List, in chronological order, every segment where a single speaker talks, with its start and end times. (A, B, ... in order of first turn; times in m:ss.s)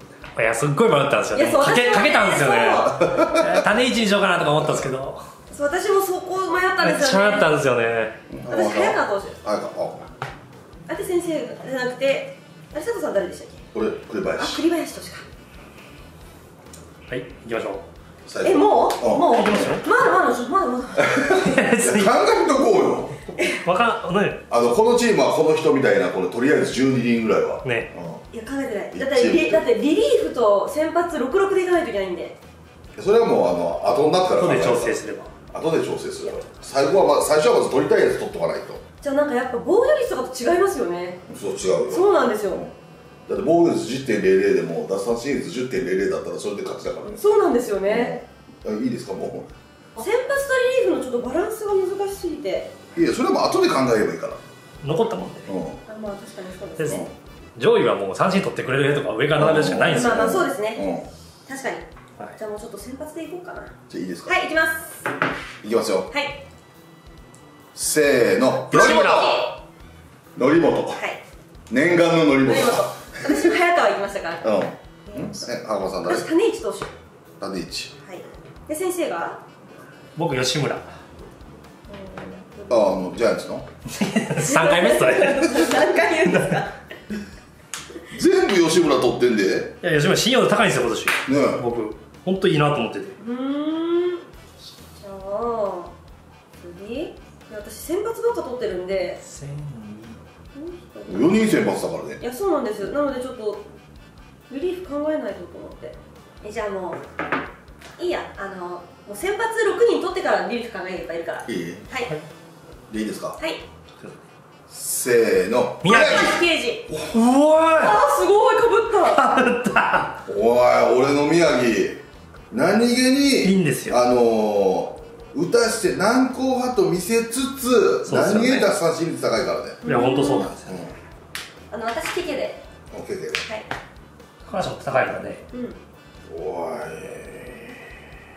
0:00.3-0:05.2 A
0:01.3-0:03.0 B
0:02.9-0:03.6 C
0:04.6-0:04.8 C
0:05.5-0:07.5 B
0:06.8-0:08.2 A
0:08.3-0:10.1 C
0:08.5-0:09.4 B
0:10.9-0:13.6 B
0:13.7-0:14.6 C
0:14.4-0:15.2 B
0:17.1-0:17.8 A
0:18.3-0:19.4 C
0:18.4-0:21.4 B
0:19.3-0:19.8 A
0:21.0-0:23.2 C
0:21.2-0:22.1 A
0:23.6-0:24.4 A
0:24.5-0:28.2 C
0:27.6-0:27.9 A
0:28.3-0:32.4 B
0:28.9-0:29.6 C
0:33.0-0:35.0 C
0:34.4-0:35.3 A
0:35.5-0:38.8 C
0:39.0-0:41.2 B
0:41.3-0:42.7 C
0:41.9-0:42.6 B
0:43.3-0:47.2 C
0:47.0-0:48.2 B
0:47.9-0:49.5 C
0:50.0-0:52.7 B
0:52.9-0:54.4 C
0:54.8-0:55.5 A
0:55.5-0:55.8 C
0:55.9-0:57.1 B
0:56.8-1:00.5 A
0:59.4-1:01.1 C
0:59.9-1:00.9 B
1:01.5-1:03.7 B
1:03.9-1:04.4 C
1:04.2-1:05.1 B
1:05.6-1:06.1 C
1:06.1-1:06.4 B
1:07.7-1:09.5 C
1:08.7-1:09.4 A
1:08.8-1:09.5 B
1:10.4-1:11.0 C
1:11.0-1:11.2 B
1:11.7-1:13.4 C
1:12.4-1:14.5 B
1:14.4-1:16.2 C
1:15.0-1:15.4 B
1:16.0-1:16.9 B
1:17.4-1:17.9 C
1:18.0-1:19.4 B
1:20.2-1:20.8 A
1:21.9-1:23.0 B
1:22.7-1:23.6 C
1:23.9-1:26.6 A
1:24.4-1:26.7 B
1:28.1-1:29.8 C
1:29.8-1:33.2 A
1:31.2-1:31.6 C
1:33.2-1:34.2 B
1:35.0-1:35.9 B
1:36.6-1:39.2 B
1:39.2-1:40.2 A
1:40.5-1:43.7 B
1:41.1-1:42.2 C
1:44.5-1:47.0 B
1:48.0-1:52.1 B
1:51.5-1:51.8 C
1:52.9-1:53.4 C
1:53.4-1:53.6 B
1:54.7-1:56.4 C
1:55.8-1:56.3 A
1:55.9-1:56.9 B
1:57.1-1:58.0 A
1:57.7-1:59.2 B
1:59.0-2:00.2 A
2:00.2-2:09.8 C
2:03.4-2:04.0 A
2:08.0-2:08.7 A
2:09.8-2:10.5 B
2:09.8-2:10.8 A
2:10.6-2:10.9 C
2:11.7-2:12.6 B
2:12.9-2:13.4 C
2:14.4-2:15.4 A
2:15.5-2:15.8 B
2:16.3-2:17.9 C